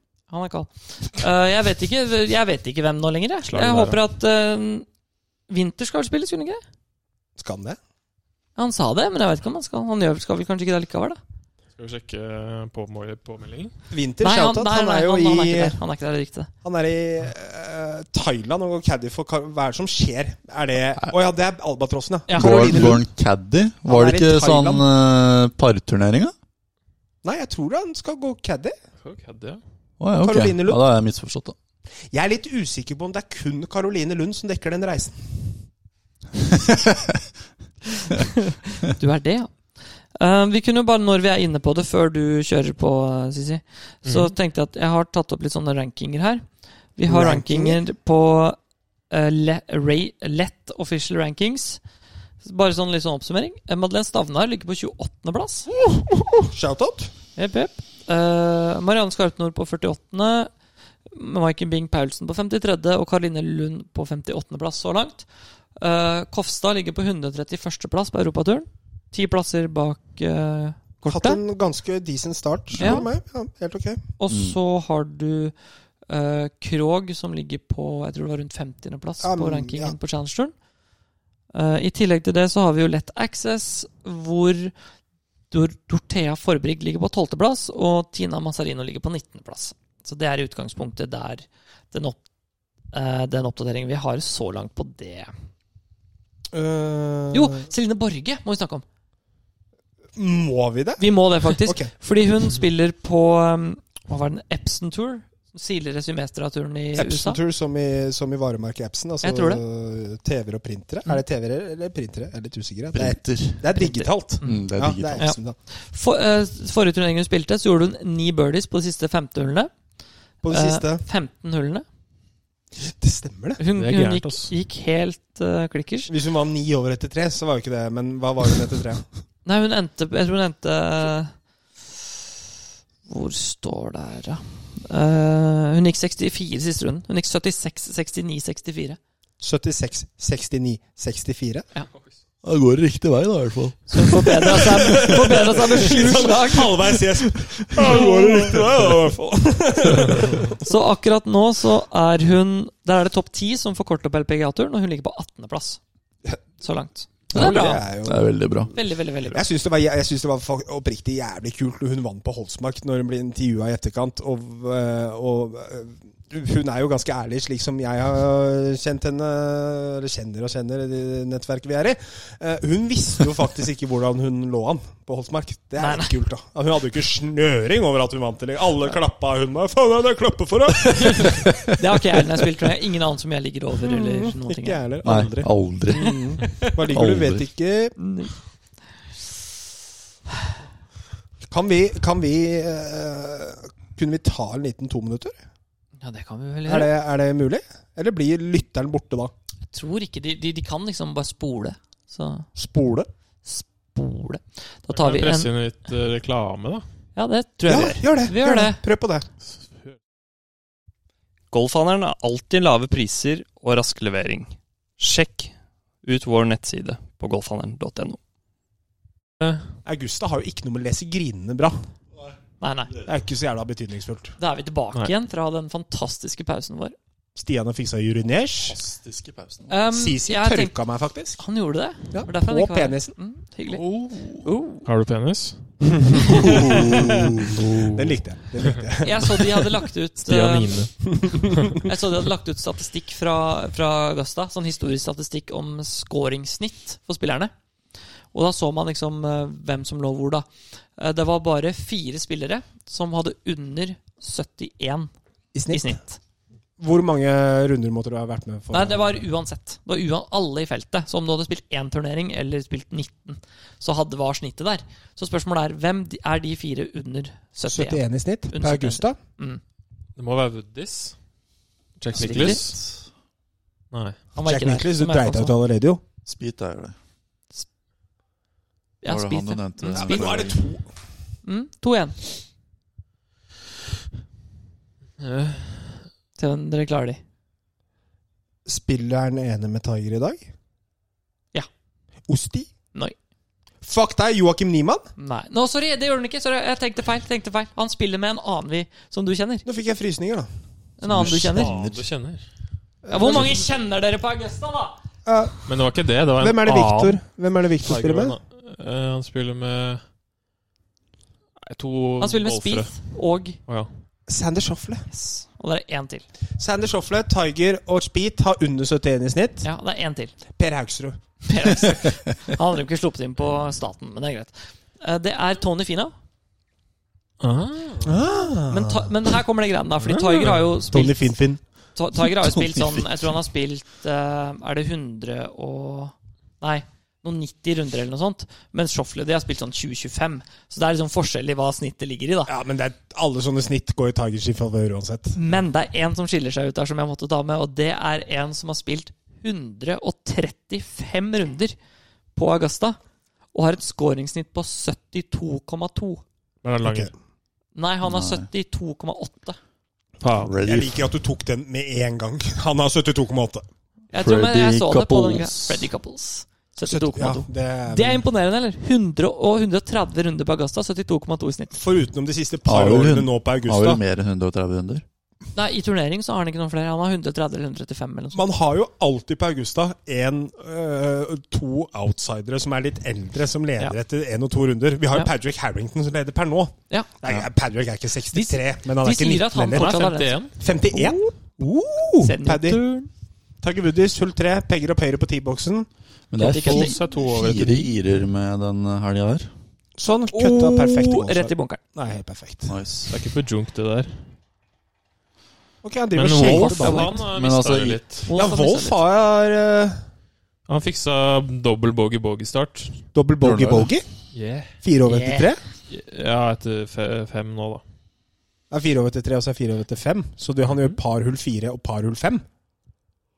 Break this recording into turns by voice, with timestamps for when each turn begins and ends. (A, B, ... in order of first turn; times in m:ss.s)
0:00.3-0:04.8 A
0:03.4-0:04.0 B
0:05.5-0:06.6 A
0:07.4-0:07.8 C
0:08.6-0:11.2 A
0:11.8-0:13.7 B
0:13.9-0:15.8 C
0:14.2-0:16.5 A
0:16.6-0:23.0 C
0:22.3-0:23.0 A
0:22.3-0:26.3 D
0:23.8-0:24.8 C
0:27.2-0:28.7 C
0:29.0-0:29.6 B
0:30.0-0:31.6 D
0:30.2-0:30.8 C
0:32.1-0:35.5 C
0:36.6-0:37.1 D
0:38.0-0:39.5 A
0:40.2-0:46.4 A
0:44.0-0:44.3 B
0:47.0-0:48.6 A
0:47.1-0:47.8 C
0:49.1-0:51.8 A
0:52.4-0:55.7 A
0:55.8-0:57.1 C
0:57.4-1:00.5 A
1:01.1-1:11.4 A
1:11.1-1:14.0 C
1:12.7-1:13.0 D
1:12.8-1:13.1 A
1:14.2-1:15.5 A
1:14.3-1:14.6 D
1:16.1-1:20.5 A
1:19.2-1:20.0 C
1:21.5-1:24.7 A
1:25.5-1:32.2 A
1:32.9-1:35.3 A
1:36.5-1:37.6 C
1:37.3-1:38.8 A
1:40.2-1:41.9 C
1:41.0-1:47.4 A
1:47.0-1:55.6 C
1:49.2-1:49.6 A
1:52.9-1:53.6 D
1:53.7-1:59.7 A
1:54.4-1:55.3 D
2:00.4-2:01.0 C
2:00.5-2:01.8 A
2:02.8-2:03.6 C
2:03.6-2:06.1 A
2:03.8-2:04.5 B
2:06.1-2:09.0 C
2:09.4-2:11.3 A
2:13.1-2:19.0 A
2:19.4-2:21.6 C
2:22.4-2:25.2 D
2:23.9-2:26.9 A
2:24.8-2:30.6 C
2:27.8-2:28.6 B
2:30.6-2:35.8 A
2:36.6-2:37.9 A
2:37.3-2:38.7 D
2:37.3-2:38.7 C
2:38.7-2:39.4 A
2:39.2-3:01.7 C
2:55.8-2:56.1 A
3:01.8-3:04.8 A
3:03.8-3:08.0 C
3:05.0-3:06.3 D
3:05.9-3:06.8 A
3:06.9-3:07.4 D
3:08.0-3:08.3 A
3:11.5-3:15.4 C
3:16.0-3:16.9 A
3:16.6-3:19.3 C
3:19.7-3:22.5 A
3:22.5-3:23.1 C
3:23.4-3:25.5 A
3:24.9-3:26.8 B
3:27.2-3:28.8 A
3:27.7-3:29.2 C
3:31.5-3:35.5 E
3:36.0-3:38.2 E
3:39.4-3:39.7 B
3:39.8-3:41.8 C
3:42.6-3:42.9 A
3:43.0-3:44.4 C
3:44.4-3:46.9 A
3:47.3-3:48.8 C
3:48.7-3:49.7 D
3:49.7-3:50.8 A
3:49.9-3:51.4 C
3:51.4-3:53.8 A
3:52.1-3:53.1 C
3:53.7-3:54.5 D
3:54.4-3:54.8 A
3:54.8-3:58.2 B
3:56.0-3:59.7 C
3:56.2-3:56.6 A
3:56.4-3:57.7 D
3:59.0-4:00.9 A
4:00.2-4:01.7 B
4:01.1-4:01.8 C
4:01.8-4:07.5 A
4:08.3-4:10.4 A
4:11.0-4:15.1 A
4:15.5-4:16.0 C
4:15.7-4:16.2 A
4:16.8-4:19.2 C
4:18.7-4:29.6 A
4:27.6-4:29.2 C
4:30.2-4:31.2 B
4:32.0-4:32.8 B
4:32.1-4:32.6 A
4:32.2-4:32.9 D
4:33.9-4:34.2 B
4:34.3-4:35.5 A
4:34.4-4:36.0 C
4:36.2-4:37.0 D
4:39.0-4:40.4 A
4:39.0-4:40.6 D
4:39.9-4:40.8 C
4:41.4-4:42.2 A
4:45.2-4:46.0 B
4:46.4-4:47.2 A
4:48.6-4:50.4 C
4:52.3-4:52.7 C
4:53.8-4:55.1 C
4:55.2-4:59.6 A
4:59.6-5:00.5 C
5:01.0-5:01.7 A
5:01.0-5:02.0 D
5:01.4-5:02.4 B
5:03.0-5:03.6 C
5:03.1-5:05.0 A
5:05.2-5:05.6 C
5:05.6-5:07.2 B
5:06.4-5:08.4 C
5:07.8-5:10.0 B
5:11.6-5:12.9 B
5:12.2-5:13.6 A
5:14.3-5:15.1 C
5:15.1-5:16.2 A
5:16.6-5:19.6 C
5:19.6-5:20.4 A
5:20.6-5:22.0 C
5:21.4-5:26.1 A
5:27.4-5:28.2 B
5:28.0-5:29.2 C
5:28.7-5:31.3 A
5:30.1-5:30.6 B
5:30.2-5:31.6 C
5:31.9-5:42.5 A
5:32.4-5:33.0 C
5:42.5-5:45.4 C
5:45.3-5:51.7 A
5:52.3-5:53.0 A
5:53.5-5:56.2 A
5:56.6-5:57.1 B
5:56.8-5:57.1 C
5:57.7-5:59.6 A
5:58.0-5:58.4 D
6:00.2-6:00.5 B
6:00.4-6:01.1 D
6:00.6-6:03.6 C
6:04.1-6:11.8 A
6:04.1-6:05.9 D
6:06.9-6:08.2 C
6:11.7-6:14.0 C
6:12.6-6:15.0 D
6:15.5-6:18.4 A
6:18.3-6:32.8 C
6:28.3-6:31.2 A
6:29.7-6:30.5 B
6:32.2-6:33.1 A
6:33.6-6:35.9 C
6:36.3-6:39.5 D
6:36.4-6:37.0 A
6:36.6-6:37.9 B
6:40.0-6:42.8 C
6:40.3-6:41.8 A
6:42.7-6:43.1 D
6:43.1-6:44.2 B
6:45.8-6:47.2 C
6:46.1-6:48.3 B
6:46.3-6:47.2 A
6:47.3-6:48.0 D
6:48.3-6:49.0 A
6:48.3-6:50.0 C
6:50.7-6:53.0 B
6:53.1-6:54.0 C
6:53.4-6:53.9 D
6:54.3-6:54.7 B
6:54.8-6:55.6 C
6:55.0-6:55.5 A
6:55.9-6:57.8 B
6:58.7-7:02.4 C
7:00.7-7:01.0 B